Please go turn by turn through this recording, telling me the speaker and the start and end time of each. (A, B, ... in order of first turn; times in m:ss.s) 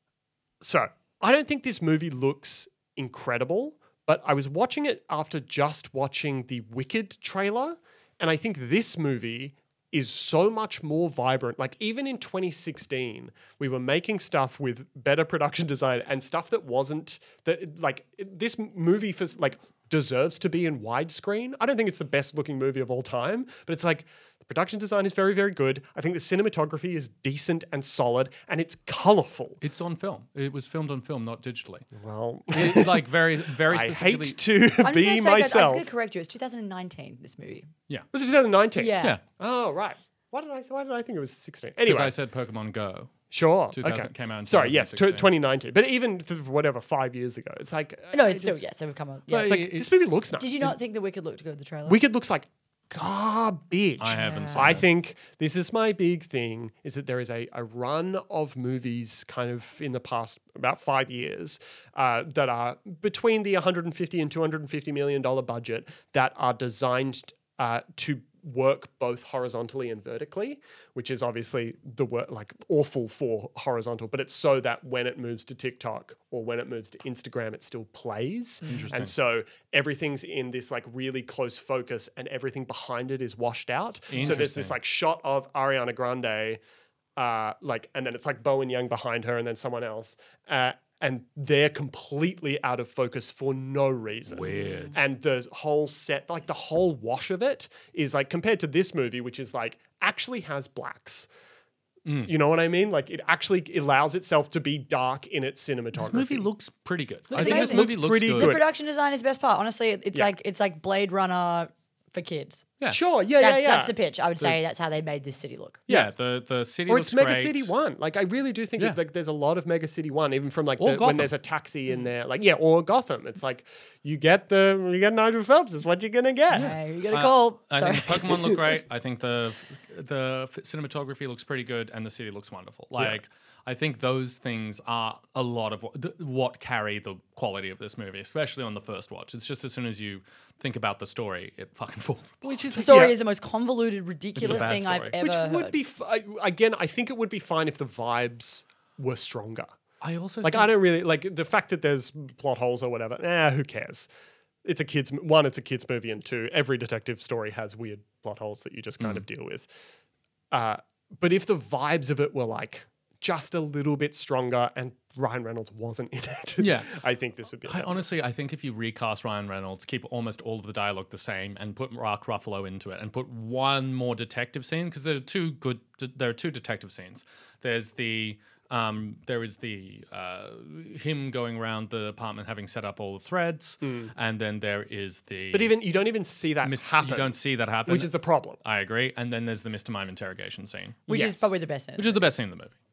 0:00.6-0:29.6 A
0:29.6-0:31.9 B
0:31.9-0:35.8 A
0:32.5-0:34.4 B
0:34.8-0:37.7 C
0:38.1-0:42.1 A
0:38.8-0:39.2 C
0:41.8-0:43.1 B
0:43.3-0:48.6 A
0:43.7-0:45.3 B
0:48.1-0:49.6 C
0:49.3-0:49.9 B
0:49.3-0:50.8 A
0:50.4-0:52.0 C
0:51.8-1:26.6 A
0:54.0-0:54.8 B
0:54.1-0:54.8 C
1:18.6-1:19.0 C
1:18.7-1:19.1 B
1:24.1-1:24.8 B
1:27.2-1:41.3 A
1:34.3-1:35.0 B
1:42.0-1:42.3 B
1:42.2-1:46.5 A
1:45.9-1:48.6 B
1:47.3-1:48.6 A
1:47.3-1:52.6 C
1:52.9-1:53.9 A
1:53.4-1:55.8 C
1:55.9-1:57.7 B
1:56.9-2:06.7 A
2:00.8-2:01.3 B
2:06.5-2:08.5 C
2:06.6-2:23.1 B
2:22.4-2:23.1 A
2:22.8-2:25.8 C
2:24.4-2:25.2 B
2:24.4-2:29.7 A
2:30.0-2:30.7 B
2:30.4-2:34.1 A
2:34.6-2:39.7 A
2:39.0-2:39.2 B
2:40.5-2:48.1 A
2:46.6-2:47.0 B
2:47.6-3:05.7 B
3:03.8-3:04.1 A
3:05.5-3:07.3 A
3:06.6-3:11.0 B
3:07.8-3:08.6 A
3:11.1-3:11.6 A
3:11.1-3:12.2 C
3:12.0-3:12.7 B